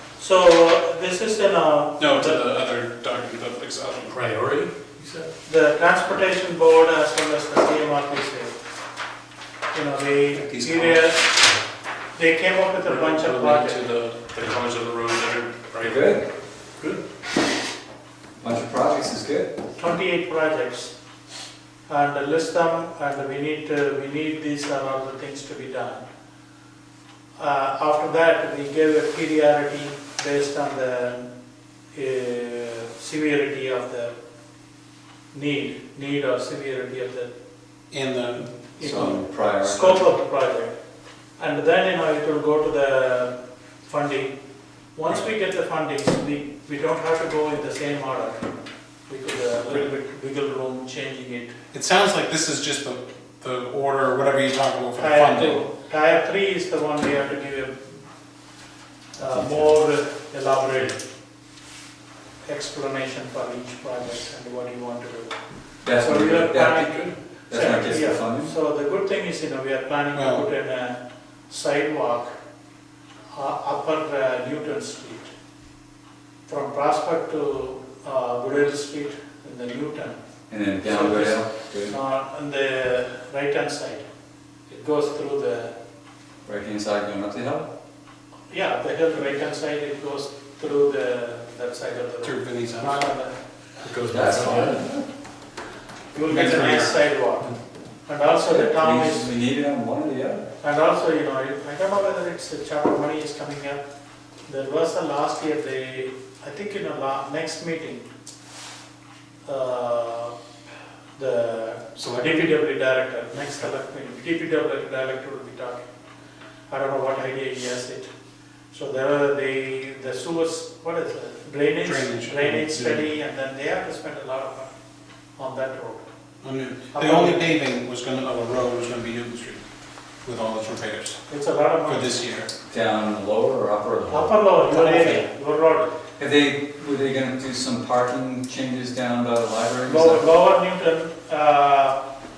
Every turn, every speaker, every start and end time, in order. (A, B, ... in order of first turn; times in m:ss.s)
0:00.2-0:02.4 A
0:02.0-0:04.2 B
0:04.1-0:05.3 C
0:05.4-0:08.5 A
0:09.7-0:11.3 A
0:10.3-0:11.1 B
0:12.1-0:13.9 A
0:12.8-0:16.0 B
0:15.8-0:16.2 D
0:18.4-0:19.5 D
0:19.8-0:20.9 A
0:21.9-0:26.0 A
0:27.4-0:31.3 A
0:31.9-0:34.1 A
0:35.3-0:37.3 A
0:37.9-0:38.5 B
0:38.4-0:40.7 A
0:38.8-0:40.1 D
0:41.4-0:44.4 A
0:44.9-0:48.5 A
0:49.1-0:51.5 A
0:51.7-0:55.6 B
0:55.0-0:57.9 A
0:59.2-1:01.0 A
0:59.3-0:59.7 D
1:02.4-1:12.3 A
1:05.8-1:08.5 D
1:10.1-1:10.4 B
1:13.3-1:15.3 A
1:16.5-1:20.2 A
1:20.5-1:21.9 D
1:20.8-1:24.0 A
1:24.7-1:25.7 A
1:26.4-1:27.7 D
1:28.5-1:33.4 A
1:32.2-1:33.0 B
1:33.8-1:34.8 C
1:34.1-1:35.0 D
1:36.1-1:37.5 A
1:36.3-1:37.0 B
1:38.1-1:39.3 A
1:38.3-1:40.4 D
1:40.6-1:43.8 A
1:44.5-1:48.1 A
1:49.4-1:50.3 A
1:51.2-1:55.9 A
1:52.0-1:52.5 B
1:56.7-1:58.1 A
1:58.7-2:04.7 A
2:01.8-2:02.6 B
2:02.6-2:03.1 C
2:05.4-2:06.0 A
2:06.4-2:09.6 B
2:06.9-2:07.5 A
2:10.2-2:11.2 B
2:11.3-2:12.1 A
2:11.8-2:12.5 B
2:12.7-2:14.4 D
2:14.1-2:15.9 A
2:16.2-2:20.2 D
2:19.8-2:22.0 A